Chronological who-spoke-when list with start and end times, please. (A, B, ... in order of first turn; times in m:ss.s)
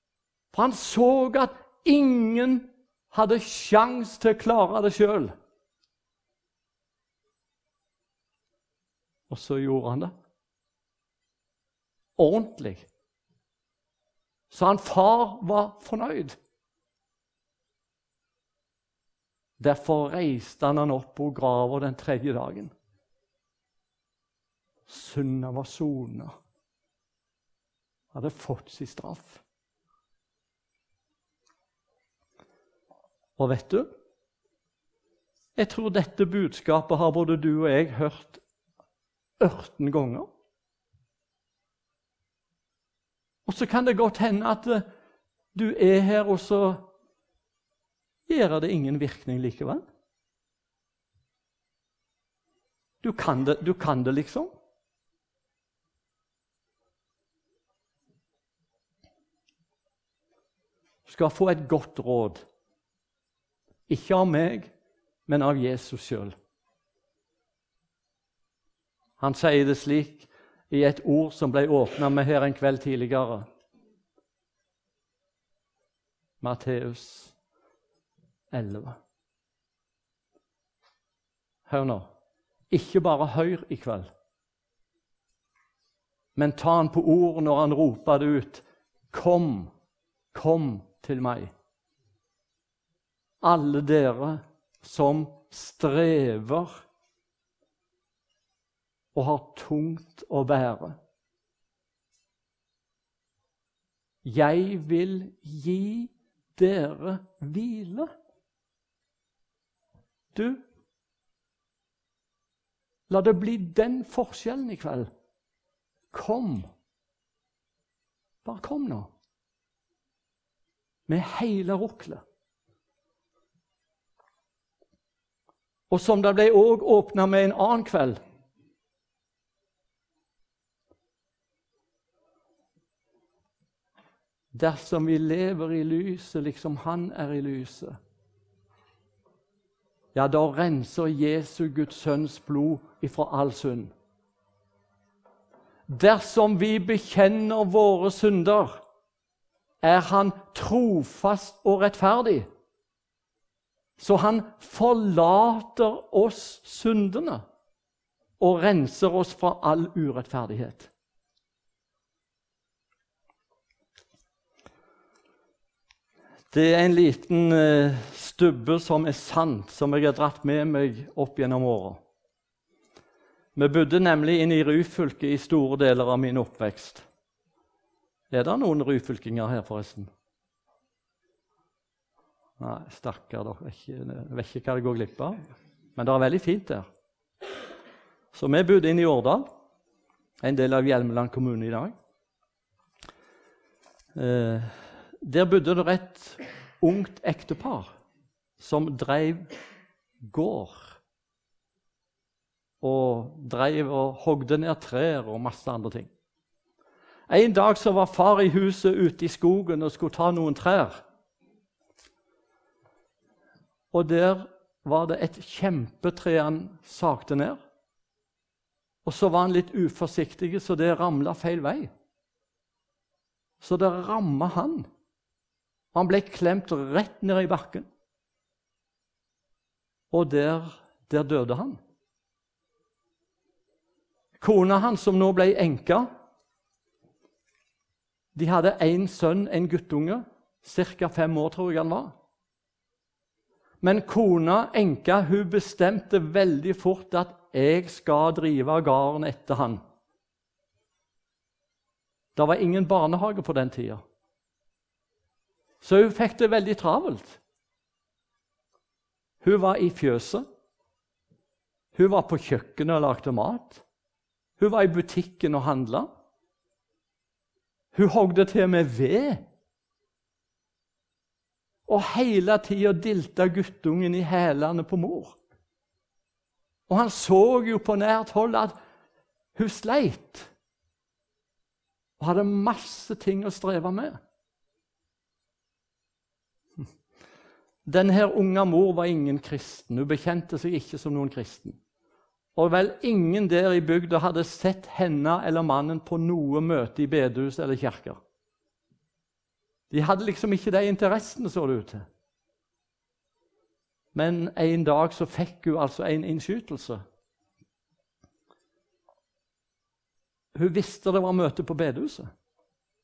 0:00.5-0:05.3 A
0:09.3-0:10.1 A
0:12.2-0:12.9 A
0:14.5-0:16.4 A
0:19.6-0:22.7 A
0:24.9-0:26.4 A
0:28.1-0:29.4 A
0:33.4-0:33.9 A
0:35.6-0:38.4 A
0:39.4-0:40.3 A
0:43.4-0:44.8 A
0:45.5-0:46.9 A
0:48.3-0:49.8 A
0:53.0-0:54.5 A
1:01.0-1:02.4 A
1:03.9-1:04.7 A
1:05.3-1:06.3 A
1:09.2-1:13.5 A
1:16.4-1:17.3 A
1:18.5-1:19.0 A
1:21.7-1:22.1 A
1:22.7-1:24.1 A
1:26.3-1:29.7 A
1:30.3-1:31.5 A
1:33.4-1:36.8 A
1:39.1-1:41.0 A
1:44.2-1:48.1 A
1:50.3-1:50.6 A
1:53.1-1:55.1 A
1:56.1-1:56.7 A
1:58.4-1:59.1 A
2:01.1-2:02.2 A
2:05.9-2:08.2 A
2:14.5-2:18.0 A
2:20.1-2:23.9 A
2:25.9-2:28.8 A
2:29.8-2:32.5 A
2:34.0-2:37.4 A
2:38.4-2:40.9 A
2:46.5-2:52.0 A
2:53.5-2:57.0 A
2:58.3-3:00.1 A
3:02.6-3:05.4 A
3:06.0-3:06.9 A
3:08.3-3:09.5 A
3:10.4-3:11.9 A
3:14.1-3:17.9 A
3:18.6-3:19.5 A
3:20.2-3:21.0 A
3:22.8-3:26.1 A
3:27.3-3:31.0 A
3:33.9-3:37.6 A
3:39.0-3:41.9 A
3:43.6-3:44.9 A
3:45.9-3:47.9 A
3:50.1-3:51.8 A
3:54.4-3:56.1 A
3:58.3-4:02.1 A
4:03.8-4:09.8 A
4:12.3-4:14.0 A
4:15.8-4:17.4 A
4:19.4-4:20.4 A
4:21.9-4:23.8 A
4:24.6-4:26.1 A
4:27.9-4:29.4 A
4:31.9-4:35.4 A
4:36.9-4:38.7 A
4:39.5-4:40.5 A
4:42.2-4:44.2 A
4:47.8-4:51.8 A
4:52.5-4:58.2 A
4:59.9-5:02.0 A
5:04.1-5:07.0 A
5:10.5-5:12.3 A